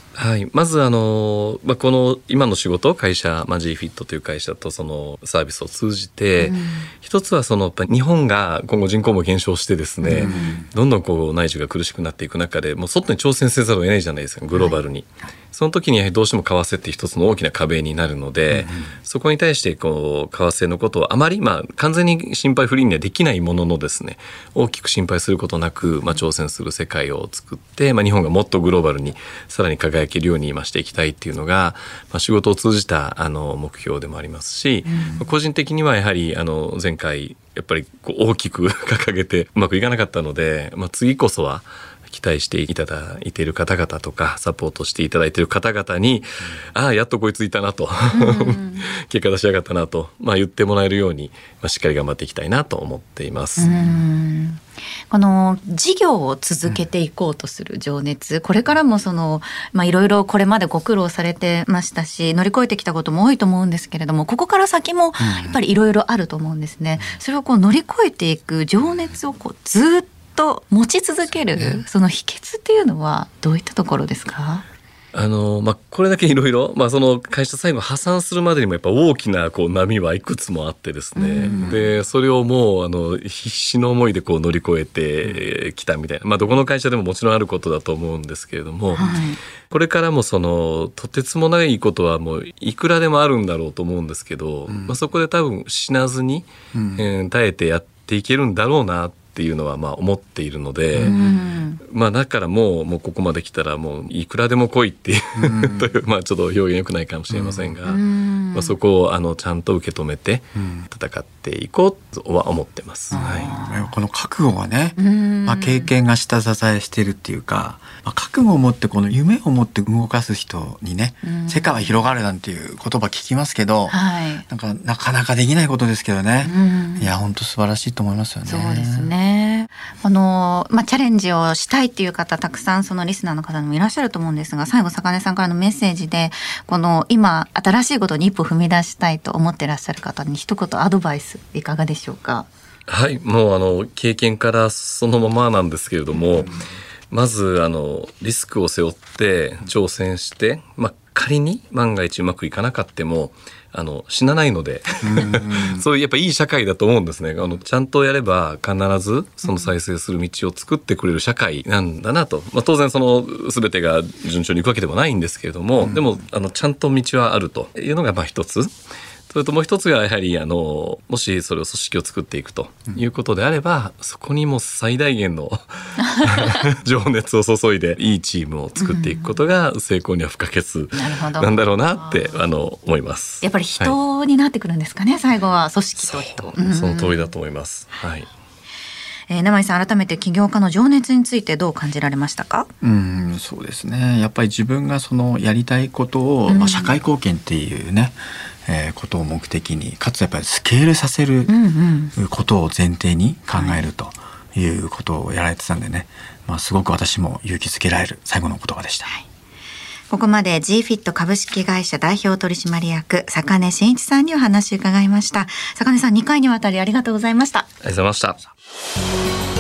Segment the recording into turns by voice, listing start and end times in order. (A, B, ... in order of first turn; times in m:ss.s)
0:00.2-0:53.7 A
0:06.4-0:06.9 B
0:10.0-0:10.6 B
0:10.1-0:10.7 C
0:18.5-0:18.9 C
0:34.9-0:35.2 B
0:48.1-0:48.9 B
0:53.6-1:14.6 B
0:53.7-0:54.0 C
1:05.2-1:05.6 C
1:11.6-1:11.8 C
1:15.1-1:29.1 A
1:21.2-1:21.8 B
1:21.4-1:21.9 C
1:28.9-1:29.4 B
1:29.7-1:41.2 A
1:34.7-1:35.0 C
1:36.7-1:37.0 C
1:40.9-1:41.4 C
1:41.0-1:41.8 B
1:41.8-1:53.5 A
1:45.4-1:45.9 C
1:47.3-1:47.8 C
1:47.9-1:48.8 B
1:50.6-1:50.9 C
1:53.1-2:09.1 C
1:53.1-1:53.9 B
1:55.0-1:55.9 B
2:01.2-2:02.0 B
2:03.9-2:04.4 B
2:06.4-2:07.1 B
2:08.4-2:22.5 B
2:22.9-2:26.6 A
2:27.1-2:48.7 A
2:35.0-2:35.8 C
2:39.5-2:39.7 B
2:49.3-3:04.0 A
2:56.0-2:56.7 B
2:58.8-2:59.3 B
3:00.9-3:02.4 B
3:03.4-3:07.3 B
3:06.0-3:08.3 A
3:09.3-3:12.7 B
3:12.8-3:21.5 C
3:16.5-3:17.0 B
3:21.5-3:22.1 B
3:22.2-3:29.1 C
3:23.5-3:23.9 B
3:30.1-3:37.7 B
3:37.8-3:38.4 A